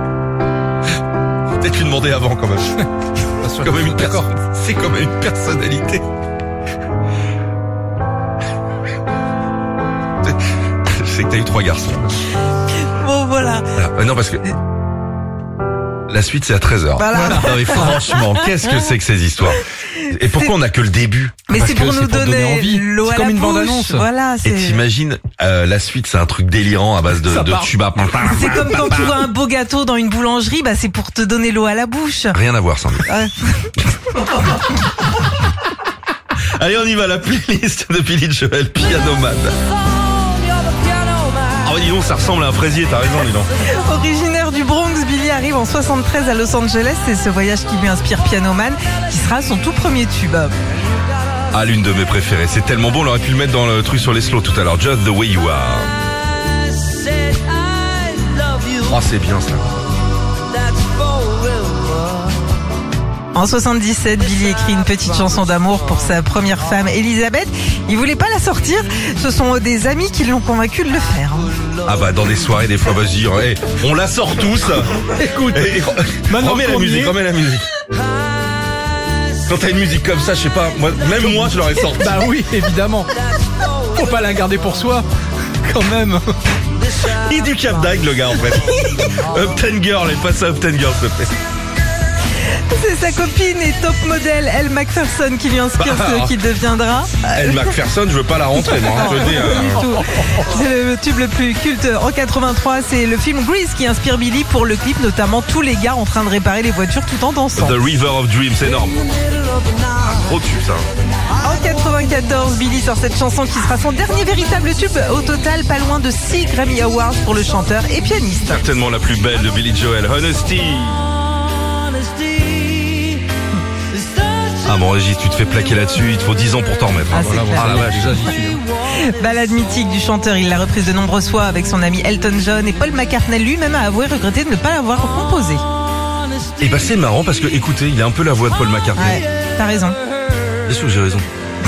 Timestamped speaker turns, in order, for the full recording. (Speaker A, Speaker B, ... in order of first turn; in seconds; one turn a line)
Speaker A: 1.5-2.8
Speaker B: 3.4-4.3
Speaker A: 3.5-6.0
Speaker A: 10.2-12.2
Speaker C: 13.0-13.7
Speaker A: 13.7-14.4
Speaker A: 16.1-21.5
Speaker C: 16.9-18.9
Speaker B: 17.2-17.9
Speaker C: 20.0-20.5
Speaker C: 21.5-24.8
Speaker B: 21.5-24.1
Speaker A: 24.4-29.1
Speaker B: 27.2-27.7
Speaker C: 28.2-32.4
Speaker A: 32.3-33.1
Speaker C: 33.1-33.5
Speaker A: 36.5-39.6
Speaker A: 41.6-43.5
Speaker C: 43.7-50.5
Speaker A: 51.5-55.9
Speaker A: 58.8-59.6
Speaker C: 63.3-71.5
Speaker A: 71.8-77.7
Speaker B: 75.1-77.1
Speaker A: 79.4-82.2
Speaker B: 81.2-83.1
Speaker B: 83.8-85.0
Speaker B: 85.6-86.2
Speaker A: 86.9-91.3
Speaker C: 92.7-97.7
Speaker A: 95.8-96.3
Speaker A: 97.3-99.8
Speaker C: 98.6-107.8
Speaker A: 107.5-109.0
Speaker A: 109.8-110.8
Speaker C: 111.4-118.6
Speaker A: 118.5-121.0
Speaker C: 122.3-123.1
Speaker A: 124.6-128.2
Speaker C: 127.1-127.8
Speaker B: 127.2-128.6
Speaker C: 129.0-135.6
Speaker A: 136.6-139.2
Speaker C: 138.9-140.0
Speaker A: 140.7-141.2